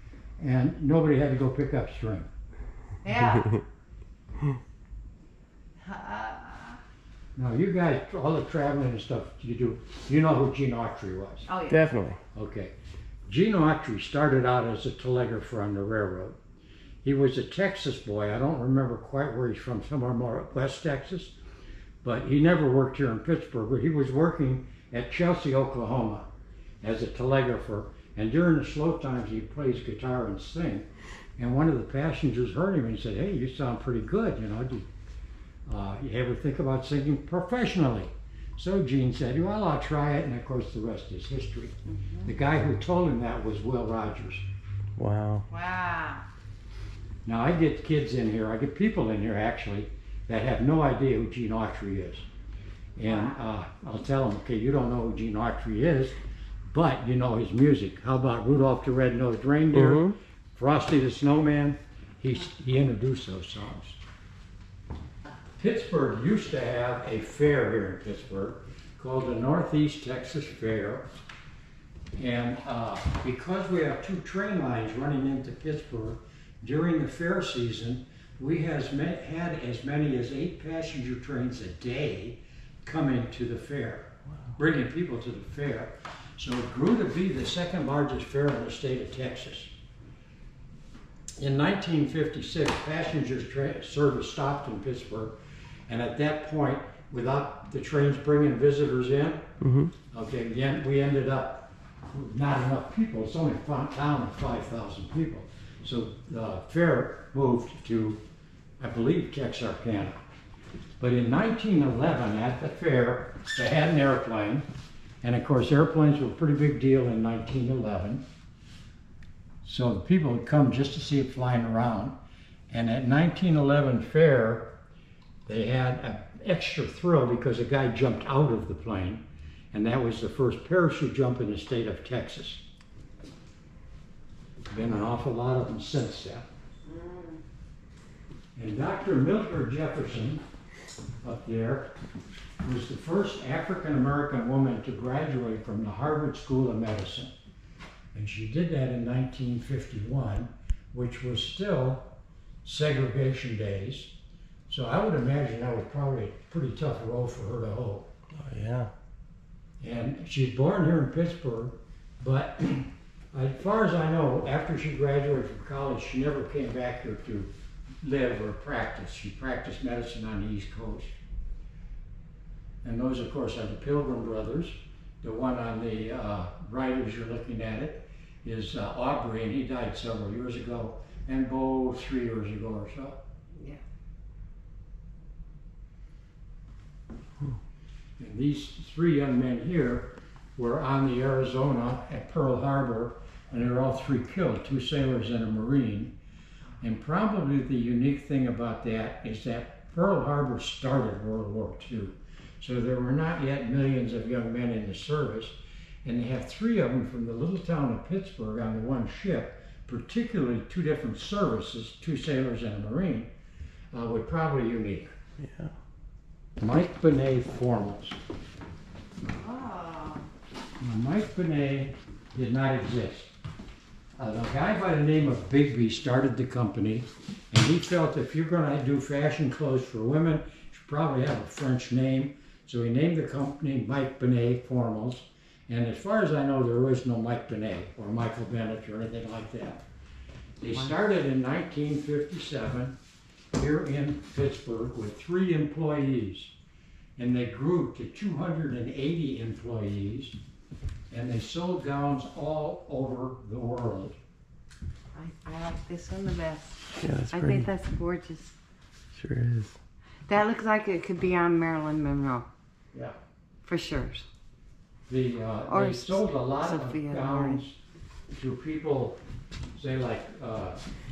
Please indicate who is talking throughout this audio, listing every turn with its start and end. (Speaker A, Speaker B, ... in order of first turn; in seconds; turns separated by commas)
Speaker A: 0.4-2.3, Speaker B: 3.0-3.6, Speaker B: 5.8-6.8, Speaker A: 7.4-11.5, Speaker B: 11.5-11.8, Speaker C: 11.7-12.2, Speaker A: 12.3-12.7, Speaker A: 13.3-16.4, Speaker A: 17.0-21.4, Speaker A: 22.0-26.3, Speaker A: 26.8-34.9, Speaker A: 35.7-44.5, Speaker B: 41.9-42.3, Speaker C: 45.0-45.5, Speaker B: 45.5-46.2, Speaker A: 47.3-52.3, Speaker A: 53.0-56.2, Speaker B: 53.0-53.4, Speaker A: 56.7-64.0, Speaker C: 59.7-60.2, Speaker A: 65.6-71.1, Speaker A: 72.2-89.7, Speaker A: 91.4-95.4, Speaker A: 95.9-99.5, Speaker C: 99.6-99.9, Speaker A: 100.1-108.2, Speaker A: 108.8-110.2, Speaker A: 111.0-114.7, Speaker A: 115.2-118.2, Speaker A: 119.6-122.2, Speaker A: 122.7-124.8, Speaker A: 125.5-132.7, Speaker A: 134.7-136.5, Speaker B: 136.9-137.4, Speaker A: 138.6-140.4, Speaker A: 141.2-141.9, Speaker A: 142.6-147.3, Speaker A: 148.1-152.1, Speaker A: 152.7-154.1, Speaker A: 154.7-158.1, Speaker C: 158.3-158.9, Speaker A: 159.8-167.5, Speaker A: 168.0-171.1, Speaker A: 172.8-183.2, Speaker A: 188.2-196.2, Speaker A: 196.8-213.3, Speaker A: 213.9-215.1, Speaker C: 215.4-215.7, Speaker A: 216.6-218.2, Speaker B: 219.2-220.2, Speaker A: 220.8-223.3, Speaker A: 224.2-239.8, Speaker A: 240.6-243.0, Speaker A: 243.5-246.5, Speaker A: 247.2-250.4, Speaker A: 251.1-254.2, Speaker B: 255.1-258.6, Speaker C: 257.0-257.7, Speaker C: 259.1-259.8, Speaker B: 260.3-262.5, Speaker B: 263.6-264.3, Speaker A: 265.1-267.8, Speaker B: 265.7-267.6, Speaker A: 268.3-269.2, Speaker A: 269.8-270.8